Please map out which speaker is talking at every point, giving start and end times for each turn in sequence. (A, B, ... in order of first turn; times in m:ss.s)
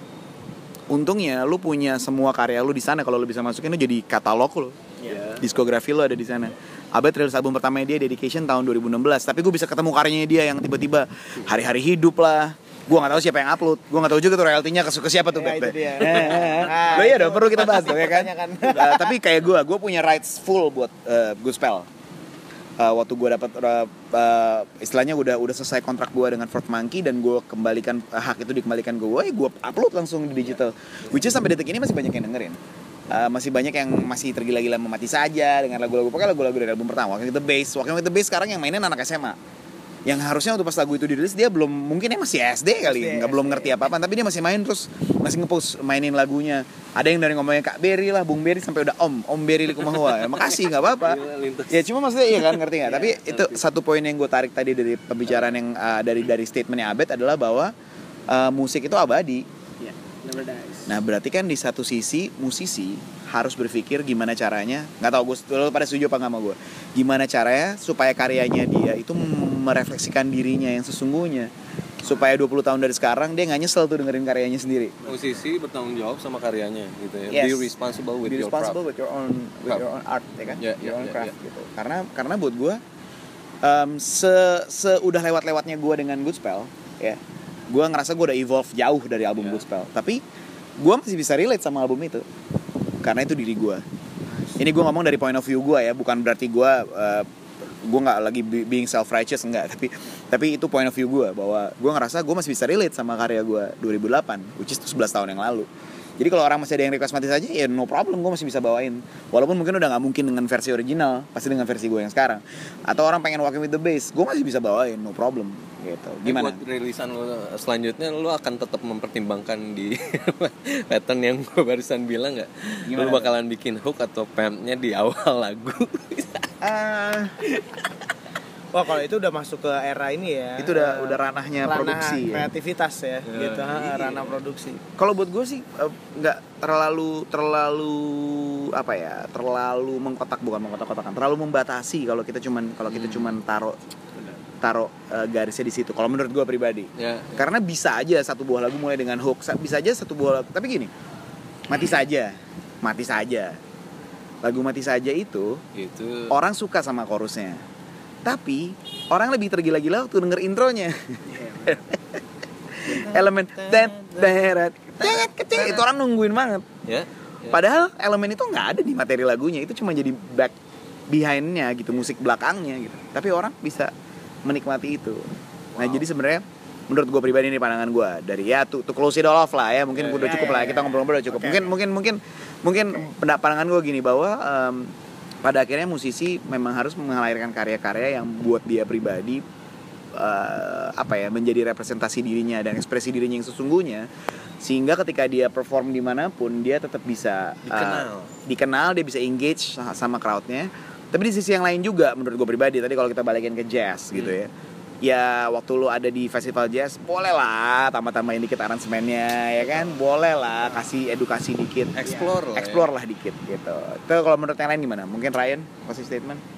0:00.9-0:04.8 A
0:05.0-0:05.3 B
0:05.1-0:05.4 C
0:05.3-0:21.9 A
0:15.3-0:19.2 B
0:22.8-0:32.6 A
0:33.1-0:39.4 A
0:40.0-0:57.7 A
0:42.8-0:43.7 B
0:50.5-0:53.6 C
0:52.8-0:53.1 B
0:58.3-0:59.4 A
0:59.8-1:01.0 B
1:00.8-1:11.5 A
1:12.0-1:15.1 A
1:15.0-1:18.8 C
1:17.3-1:17.7 A
1:18.2-1:22.8 A
1:20.6-1:21.3 C
1:23.6-1:30.2 A
1:30.8-1:32.2 A
1:33.0-1:33.8 A
1:34.6-1:37.3 A
1:37.8-1:56.6 A
1:56.2-2:06.5 C
2:02.9-2:03.3 A
2:06.6-2:07.4 A
2:07.4-2:07.8 C
2:08.7-2:14.8 B
2:10.6-2:12.5 A
2:13.2-2:14.4 C
2:15.0-2:23.8 A
2:22.9-2:23.3 C
2:24.6-2:30.9 A
2:27.0-2:27.4 C
2:31.7-2:33.6 A
2:34.4-2:35.6 A
2:35.7-2:36.4 C
2:36.3-2:37.6 A
2:38.2-2:42.2 A
2:41.3-2:41.8 B
2:42.7-2:46.6 A
2:42.8-2:44.5 C
2:45.0-2:45.8 C
2:46.8-2:47.6 C
2:47.5-2:50.5 A
2:51.1-2:53.9 A
2:54.4-3:09.4 A
2:55.7-2:56.0 C
2:59.9-3:00.5 C
3:00.1-3:01.7 B
3:10.1-3:14.1 A
3:14.6-3:24.5 A
3:17.6-3:18.3 C
3:25.0-3:36.4 A
3:32.0-3:32.9 C
3:32.0-3:32.3 B